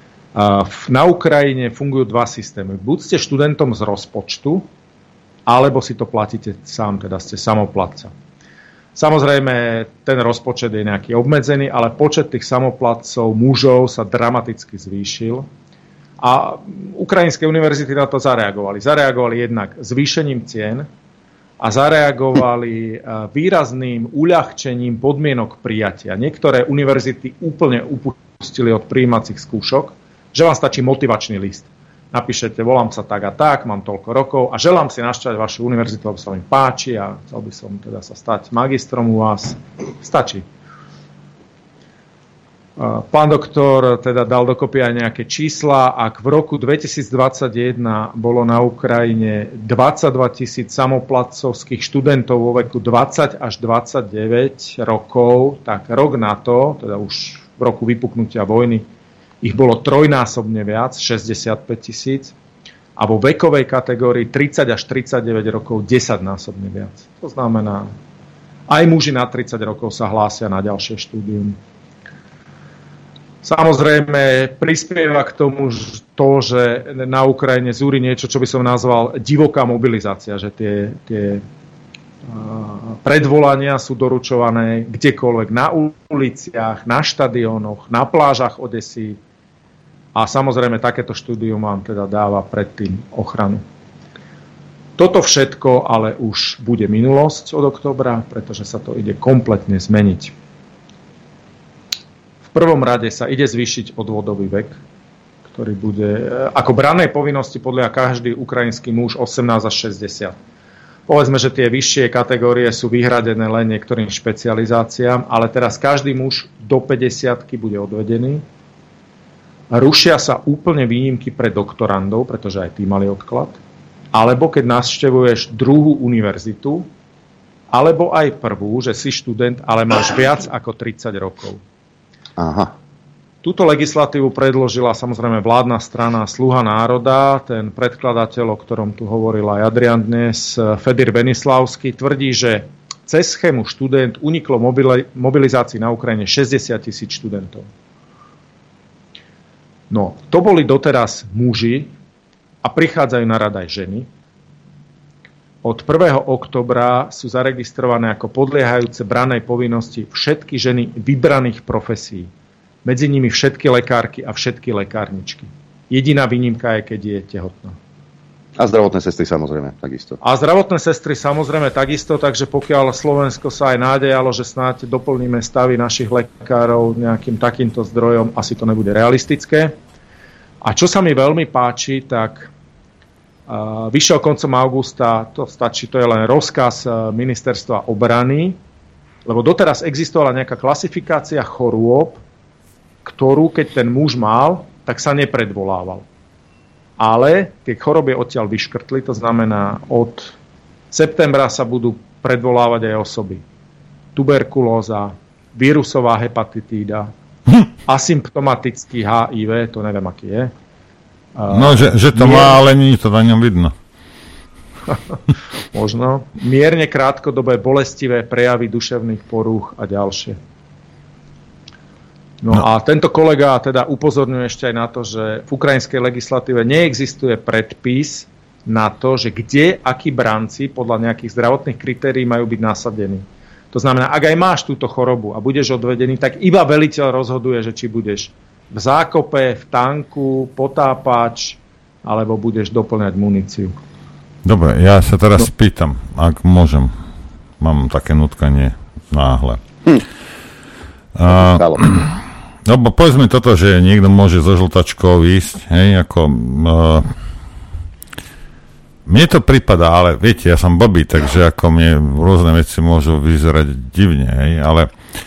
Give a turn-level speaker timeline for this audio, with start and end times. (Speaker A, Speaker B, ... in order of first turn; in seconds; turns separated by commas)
Speaker A: 0.3-4.7, Speaker A: 5.5-8.1, Speaker A: 8.9-15.5, Speaker A: 16.2-20.9, Speaker A: 21.6-40.4, Speaker A: 42.8-58.9, Speaker A: 59.4-62.3, Speaker A: 63.0-67.9, Speaker A: 68.7-71.5, Speaker A: 73.4-81.4, Speaker A: 82.3-89.2, Speaker A: 90.1-93.6, Speaker A: 95.0-100.3, Speaker A: 102.5-104.8, Speaker A: 105.5-110.3, Speaker A: 111.1-118.4, Speaker A: 119.7-123.6, Speaker A: 124.1-126.9, Speaker A: 127.7-131.6, Speaker B: 132.4-132.7, Speaker A: 133.4-147.7, Speaker A: 149.9-151.9, Speaker A: 152.6-154.1, Speaker A: 155.6-162.3, Speaker A: 162.8-167.8, Speaker B: 168.6-170.2, Speaker A: 170.2-179.7, Speaker A: 180.6-182.5, Speaker A: 183.5-188.6, Speaker A: 189.2-192.2, Speaker A: 193.0-196.0, Speaker A: 197.0-200.3, Speaker A: 200.9-203.4, Speaker A: 204.1-207.1, Speaker A: 207.8-210.5, Speaker A: 211.3-212.6, Speaker C: 211.5-213.7, Speaker A: 215.7-220.4, Speaker A: 222.4-243.8, Speaker C: 244.4-247.0, Speaker C: 247.6-249.6, Speaker C: 251.2-252.1, Speaker B: 251.3-251.9, Speaker C: 252.6-257.1, Speaker C: 259.1-264.9